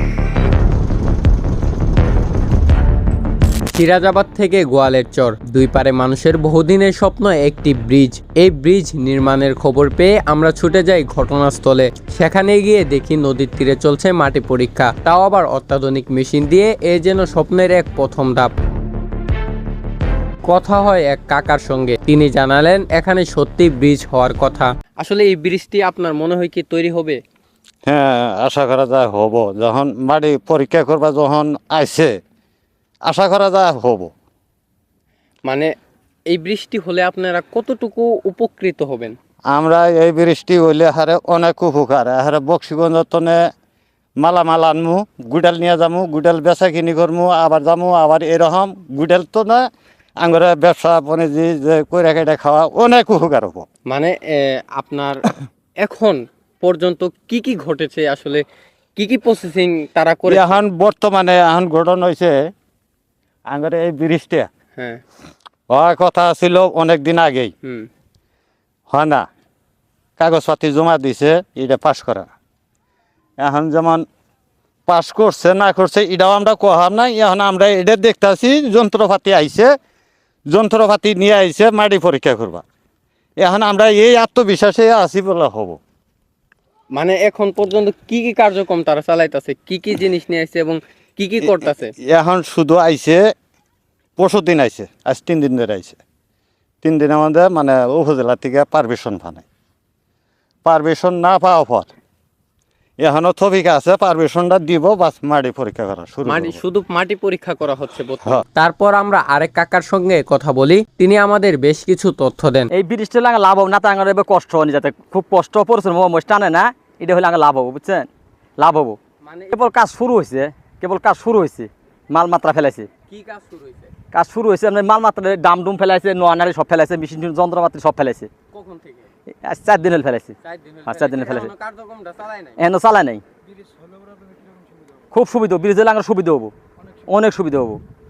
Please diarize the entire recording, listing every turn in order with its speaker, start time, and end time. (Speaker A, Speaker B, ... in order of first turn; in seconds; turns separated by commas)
Speaker A: 3.7-18.5, Speaker A: 20.5-27.2, Speaker B: 27.9-32.1, Speaker B: 33.1-34.1, Speaker A: 35.4-35.7, Speaker A: 36.3-39.1, Speaker B: 39.5-43.4, Speaker B: 44.2-49.6, Speaker B: 50.2-53.6, Speaker A: 53.9-58.4, Speaker A: 59.0-60.6, Speaker B: 60.3-62.4, Speaker B: 63.5-64.5, Speaker B: 65.7-67.5, Speaker B: 68.9-69.2, Speaker B: 70.2-72.3, Speaker B: 73.4-74.0, Speaker B: 74.9-79.7, Speaker B: 80.5-82.6, Speaker B: 83.4-85.8, Speaker A: 86.9-91.9, Speaker B: 92.0-93.2, Speaker B: 94.2-96.0, Speaker B: 96.8-99.4, Speaker B: 100.6-101.9, Speaker B: 103.0-106.6, Speaker A: 106.2-112.7, Speaker C: 112.7-119.0, Speaker A: 119.2-119.5, Speaker C: 119.5-122.9, Speaker A: 123.1-123.9, Speaker C: 124.1-128.3, Speaker A: 128.5-129.1, Speaker C: 129.4-130.3, Speaker A: 130.4-132.6, Speaker C: 130.9-131.5, Speaker C: 132.6-133.2, Speaker C: 135.1-136.5, Speaker C: 137.1-137.8